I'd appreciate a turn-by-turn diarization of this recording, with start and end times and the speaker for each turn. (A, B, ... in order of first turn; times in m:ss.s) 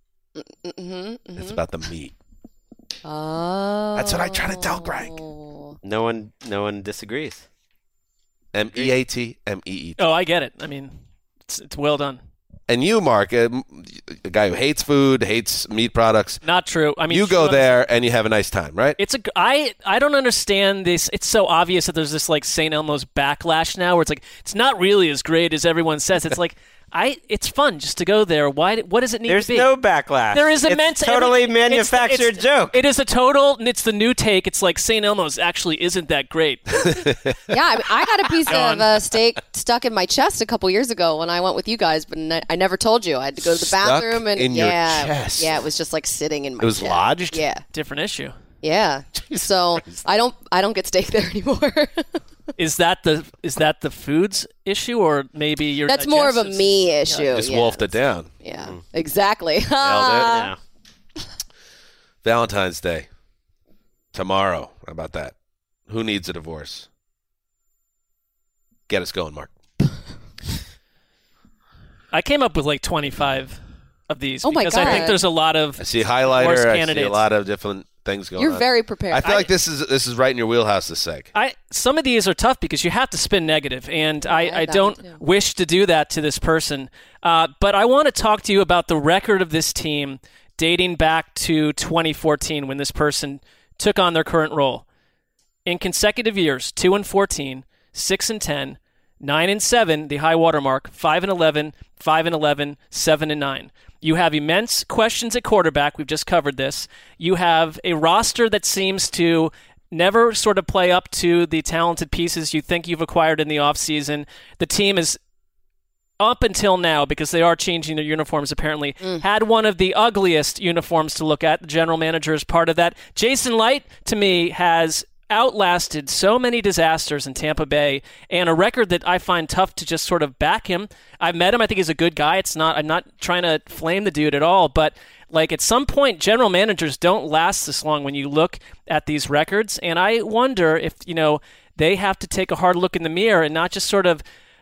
0:00.4-0:01.6 A
0:01.4-0:02.1 B
0:03.0-0:05.7 A
0:03.9-0:05.1 B
0:05.8-0:07.4 C
0:08.5-0:10.0 B
0:10.0-0:10.9 D
0:11.4-0:12.2 D
0:12.7-0:16.4 B
0:16.4-0:17.8 D
0:17.1-0:19.0 B
0:19.0-0:29.7 D
0:29.3-0:32.8 C
0:30.3-0:37.1 D
0:36.9-0:37.3 B
0:37.5-0:47.6 A
0:38.5-0:38.9 D
0:43.4-0:45.6 B
0:46.6-0:47.4 B
0:47.7-0:48.3 D
0:48.6-0:52.2 A
0:49.2-0:50.0 B
0:52.6-0:57.3 D
0:55.9-0:57.9 A
0:57.3-0:58.3 B
0:58.4-1:00.5 A
0:59.8-1:00.3 B
0:59.9-1:00.6 C
1:02.2-1:03.1 B
1:04.1-1:05.3 B
1:05.9-1:06.9 B
1:08.9-1:09.5 B
1:12.1-1:13.6 D
1:14.1-1:17.2 D
1:14.4-1:15.2 A
1:15.8-1:21.3 B
1:18.4-1:19.4 A
1:21.3-1:34.8 D
1:24.2-1:25.2 A
1:35.6-1:55.2 D
1:56.2-2:24.2 D